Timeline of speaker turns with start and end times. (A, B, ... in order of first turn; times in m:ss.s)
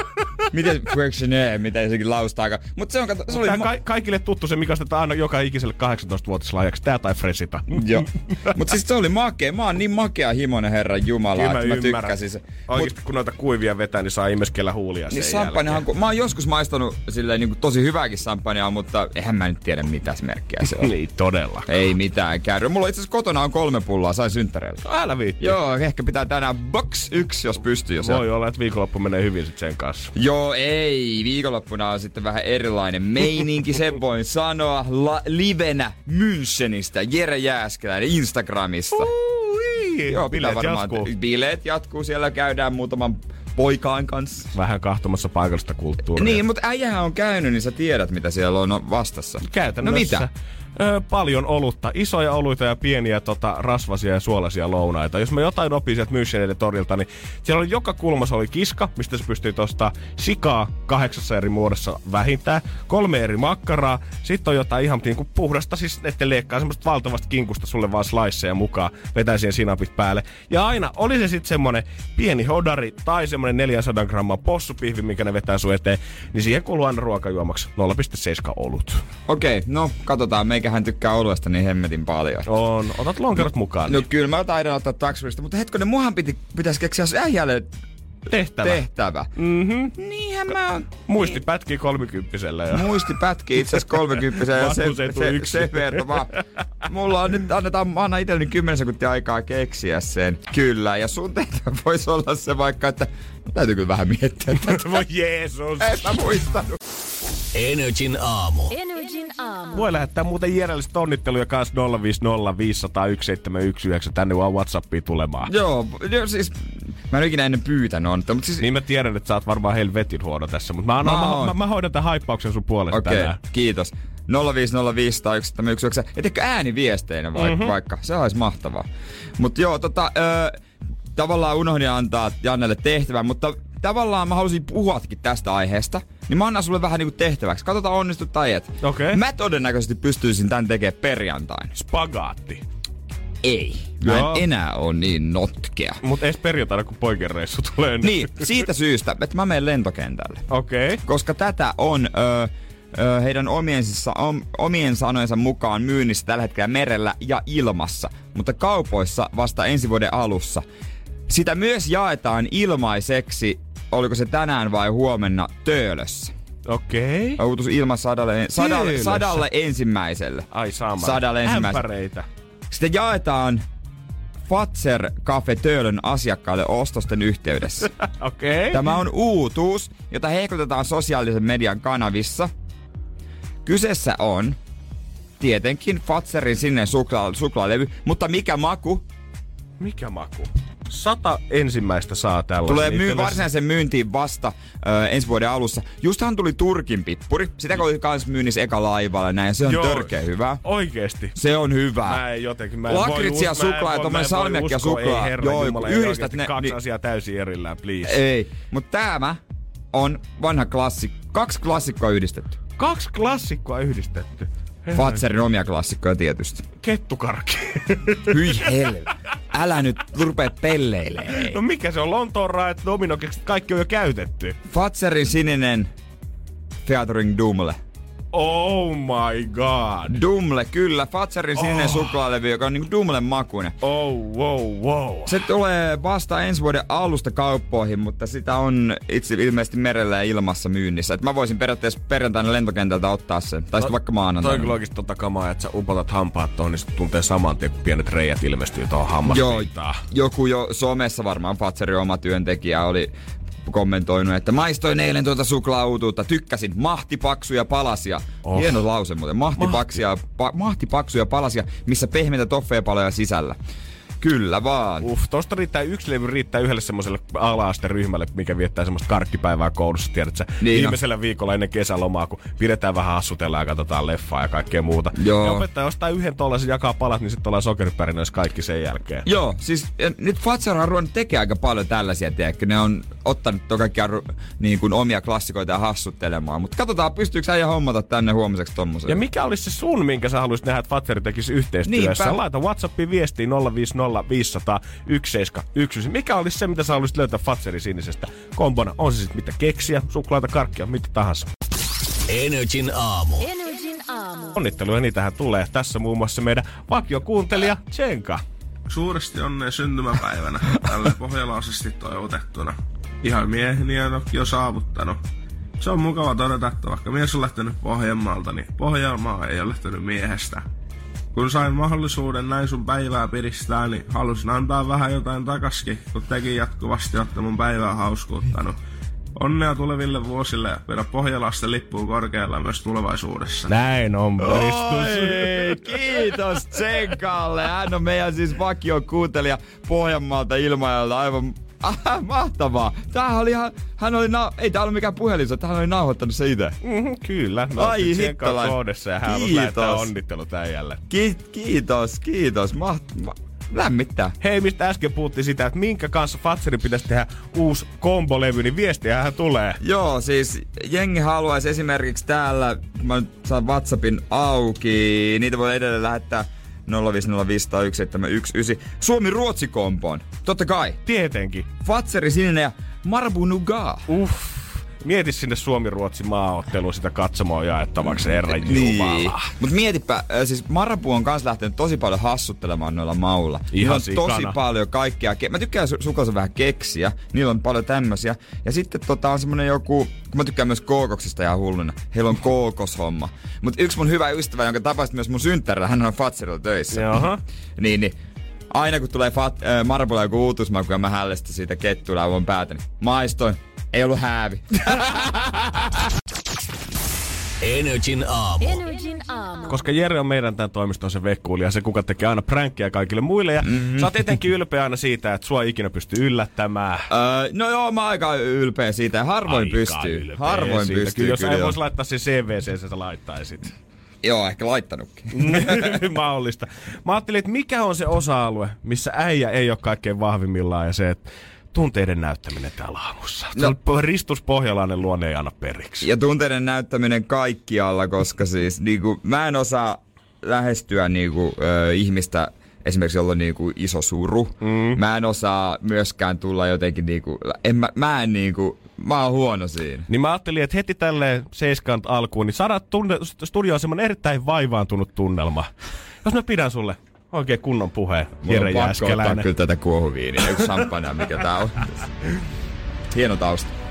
0:00.5-0:03.7 A
0:03.3-0:08.5 B
0:07.7-0:12.9 A
0:11.4-0:15.8 B
0:15.1-0:20.9 A
0:20.6-0:21.7 B
0:21.7-0:24.8 A
0:24.8-0:25.6 B
0:25.4-0:28.2 A
0:28.0-0:30.1 B
0:30.2-0:39.1 A
0:38.9-0:41.1 B
0:40.1-0:44.5 A
0:44.5-0:46.4 B
0:46.2-0:50.3 A
0:49.4-1:19.0 B
1:19.3-1:22.5 A
1:22.5-1:24.0 B
1:23.9-1:27.7 A
1:28.3-1:28.8 B
1:28.6-1:29.3 A
1:29.4-1:29.9 B
1:29.9-1:30.9 A
1:31.1-1:33.1 B
1:32.7-1:36.3 A
1:33.7-1:36.2 B
1:36.9-1:45.0 A
1:44.5-1:46.1 B
1:45.8-1:46.8 A
1:47.5-1:48.7 C
1:48.7-1:49.9 D
1:49.8-1:55.5 B
1:55.5-1:58.7 A
1:58.6-2:03.4 B
2:01.0-2:01.6 A
2:02.9-2:08.9 A
2:07.4-2:07.8 B
2:09.4-2:10.6 A
2:11.2-2:21.7 A
2:18.8-2:19.2 B
2:21.8-2:22.6 B
2:23.4-2:26.0 A
2:24.0-2:24.4 B
2:26.0-2:28.5 B
2:28.0-2:30.4 A
2:30.5-2:31.0 B
2:31.0-2:40.6 A
2:41.3-2:46.3 A
2:46.7-2:47.4 B
2:47.4-2:50.5 A
2:48.6-2:49.4 B
2:50.5-2:52.3 B
2:51.0-2:51.8 A
2:52.7-2:53.6 A
2:54.5-2:57.9 A
2:58.0-2:58.9 B
2:58.7-3:02.5 A
3:03.6-3:04.6 A
3:05.4-3:09.0 A
3:09.8-3:13.4 B
3:12.7-3:20.6 A
3:19.6-3:21.4 B
3:21.4-3:22.2 A
3:22.1-3:28.2 B
3:22.9-3:26.8 A
3:28.0-3:29.4 A
3:29.9-3:32.6 A
3:32.8-3:35.2 B
3:34.9-3:36.6 A
3:36.8-3:38.7 B
3:38.3-3:41.6 A
3:41.3-3:44.6 B
3:44.7-3:45.9 A
3:46.8-3:47.8 A
3:48.3-3:50.2 B
3:50.1-3:53.8 A
3:51.6-3:52.1 B
3:53.8-3:55.4 B
3:55.3-4:04.7 A
4:03.8-4:10.0 B
4:09.3-4:13.1 A
4:13.7-4:23.6 A
4:18.4-4:18.8 B
4:19.6-4:20.0 B
4:24.2-4:25.1 A
4:25.0-4:39.3 B
4:30.6-4:31.0 A
4:35.2-4:35.6 A
4:39.2-4:49.2 A
4:49.1-5:01.5 B
4:51.8-4:52.4 A
5:02.3-5:03.4 C
5:03.4-5:04.6 D
5:04.6-5:08.4 B
5:08.9-5:15.2 E
5:15.8-5:20.6 E
5:21.3-5:28.8 E
5:29.4-5:33.7 E
5:33.7-5:36.2 B
5:34.4-5:46.8 A
5:46.8-5:51.0 B
5:47.8-5:50.1 A
5:51.1-5:54.4 A
5:54.4-5:59.8 B
5:59.8-6:11.0 A
6:11.0-6:11.7 B
6:11.8-6:14.1 A
6:14.1-6:19.5 B
6:18.0-6:38.2 A
6:23.7-6:24.6 B
6:36.9-6:37.4 B
6:38.7-6:45.9 A
6:47.6-6:48.8 C
6:48.6-6:49.8 D
6:49.7-6:57.1 B
6:53.6-6:54.2 A
6:57.1-7:01.8 A
6:59.5-7:03.7 B
7:04.2-7:06.0 A
7:05.3-7:16.1 B
7:16.0-7:30.1 A
7:24.6-7:25.0 B
7:30.1-7:35.7 B
7:36.2-7:39.5 B
7:38.4-7:41.9 A
7:43.1-7:43.7 A